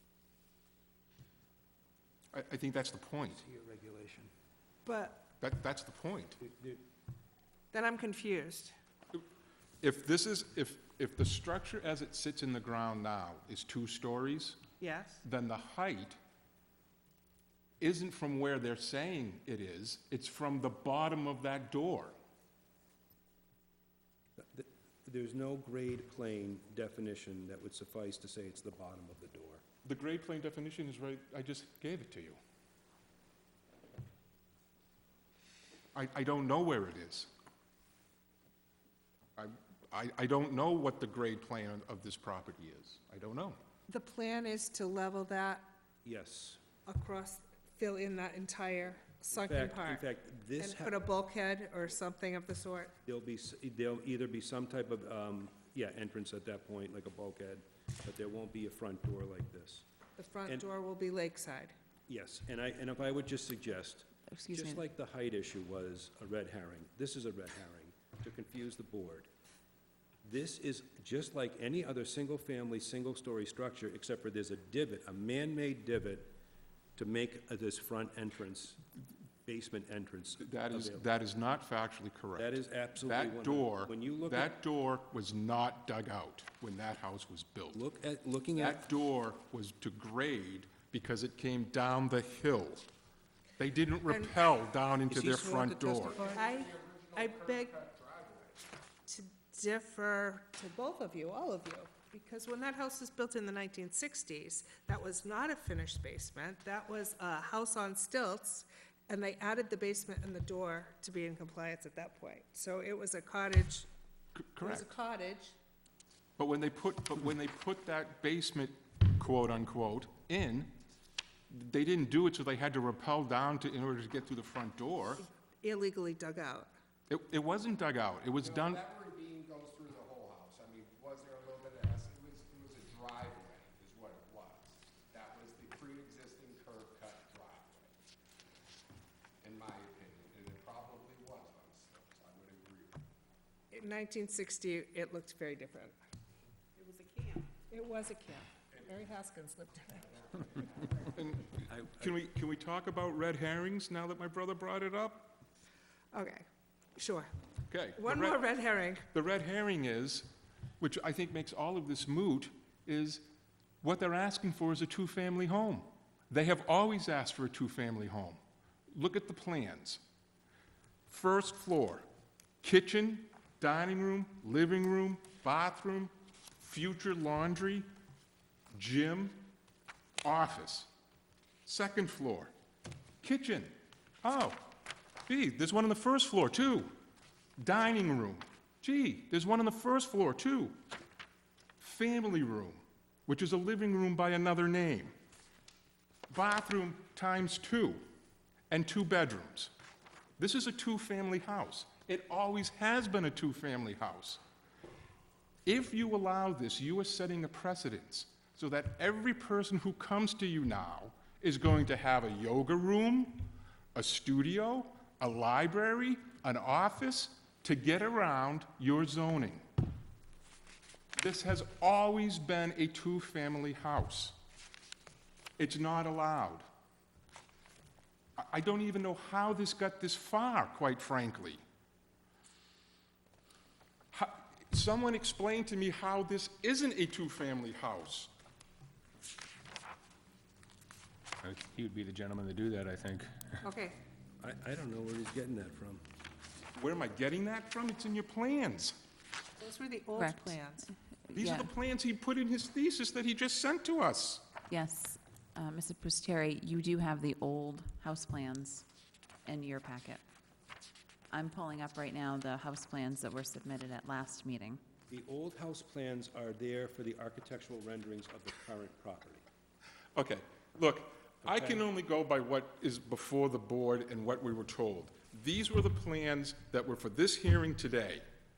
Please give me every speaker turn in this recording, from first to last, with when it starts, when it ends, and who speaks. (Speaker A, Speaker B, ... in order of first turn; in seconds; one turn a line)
Speaker A: 2.3-3.4
Speaker B: 3.3-4.3
Speaker C: 4.8-5.2
Speaker A: 5.4-6.4
Speaker B: 6.4-6.8
Speaker C: 7.7-8.7
Speaker A: 9.8-14.6
Speaker C: 14.8-15.2
Speaker A: 15.2-16.2
Speaker A: 17.8-22.2
Speaker B: 24.4-29.6
Speaker A: 29.8-32.4
Speaker A: 35.9-37.3
Speaker A: 39.4-43.6
Speaker C: 43.9-45.7
Speaker B: 46.0-46.6
Speaker C: 46.9-50.1
Speaker B: 49.3-51.0
Speaker C: 50.6-52.9
Speaker B: 53.0-59.9
Speaker C: 60.2-61.7
Speaker B: 62.1-69.3
Speaker D: 64.3-64.8
Speaker B: 70.2-76.3
Speaker B: 77.0-78.8
Speaker B: 79.5-81.1
Speaker A: 80.4-87.8
Speaker B: 82.4-84.5
Speaker B: 87.7-88.9
Speaker A: 88.6-92.8
Speaker A: 93.6-96.2
Speaker C: 94.0-94.3
Speaker C: 95.1-97.7
Speaker E: 96.1-98.6
Speaker C: 99.1-113.9
Speaker A: 114.4-114.9
Speaker C: 114.6-115.5
Speaker A: 116.4-120.7
Speaker A: 121.5-125.2
Speaker C: 125.2-126.7
Speaker A: 127.1-128.8
Speaker E: 128.4-137.9
Speaker E: 139.4-143.0
Speaker C: 143.7-145.9
Speaker C: 147.7-150.3
Speaker A: 151.1-155.3
Speaker B: 151.7-152.1
Speaker C: 156.1-157.3
Speaker A: 157.7-158.4
Speaker C: 157.9-159.1
Speaker A: 159.1-163.2
Speaker A: 163.8-168.4
Speaker A: 168.9-170.0
Speaker A: 171.1-172.0
Speaker A: 172.6-177.9
Speaker A: 178.7-179.4
Speaker A: 180.2-180.9
Speaker A: 181.7-182.5
Speaker A: 183.2-184.7
Speaker A: 185.3-186.9
Speaker A: 187.6-190.8
Speaker A: 191.8-195.1
Speaker A: 196.3-198.0
Speaker A: 198.7-199.7
Speaker A: 200.4-204.4
Speaker A: 205.7-219.7
Speaker A: 221.1-224.3
Speaker A: 225.6-226.6
Speaker A: 228.4-231.6
Speaker A: 234.1-238.3
Speaker F: 241.4-243.6
Speaker C: 243.6-244.0
Speaker B: 244.4-246.0
Speaker A: 246.7-249.0
Speaker C: 249.6-250.9
Speaker D: 250.2-250.6
Speaker A: 251.3-254.5
Speaker D: 251.3-251.7
Speaker D: 254.7-258.9
Speaker D: 259.4-260.2
Speaker D: 261.3-264.8
Speaker B: 265.1-269.4
Speaker A: 270.1-278.2
Speaker B: 271.4-271.9